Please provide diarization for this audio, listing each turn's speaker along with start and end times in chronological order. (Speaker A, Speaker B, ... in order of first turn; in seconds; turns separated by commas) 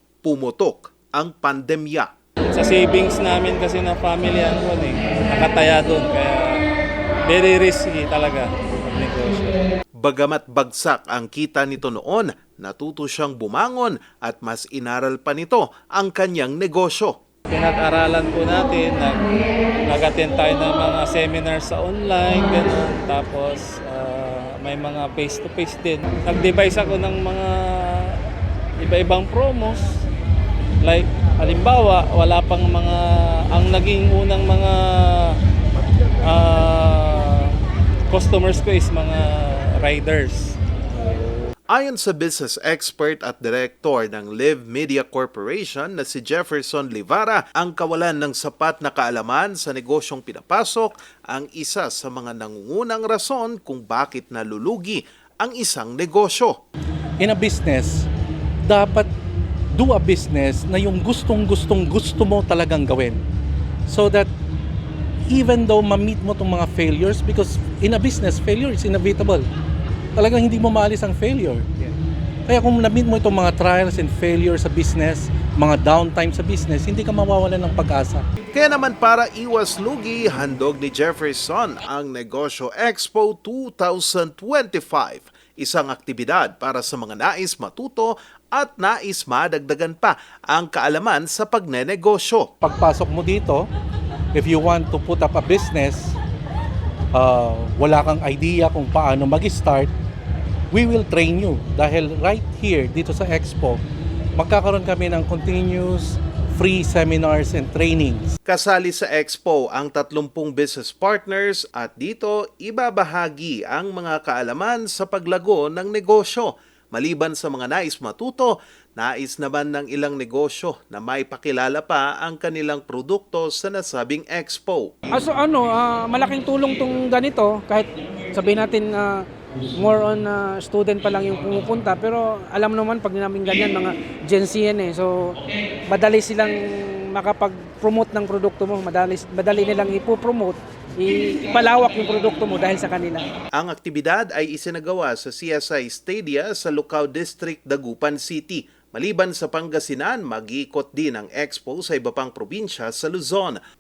Speaker A: 0.2-2.1, Speaker B: 2.5-6.6, Speaker B: 7.2-9.6, Speaker A: 10.0-17.2, Speaker B: 17.5-19.2, Speaker B: 19.9-28.2, Speaker B: 28.8-29.9, Speaker B: 30.8-35.4, Speaker B: 36.2-37.5, Speaker B: 38.1-41.2, Speaker A: 41.7-56.5, Speaker C: 57.2-58.0, Speaker C: 58.6-59.1, Speaker C: 59.7-63.2, Speaker C: 63.9-64.3, Speaker C: 65.3-69.5, Speaker C: 70.2-71.7, Speaker C: 72.5-78.2, Speaker A: 78.4-92.5, Speaker C: 92.6-93.7, Speaker C: 94.3-96.2, Speaker C: 97.1-99.9, Speaker C: 100.7-103.8, Speaker C: 104.3-108.3, Speaker A: 108.5-124.9, Speaker D: 125.1-143.3, Speaker A: 143.5-153.6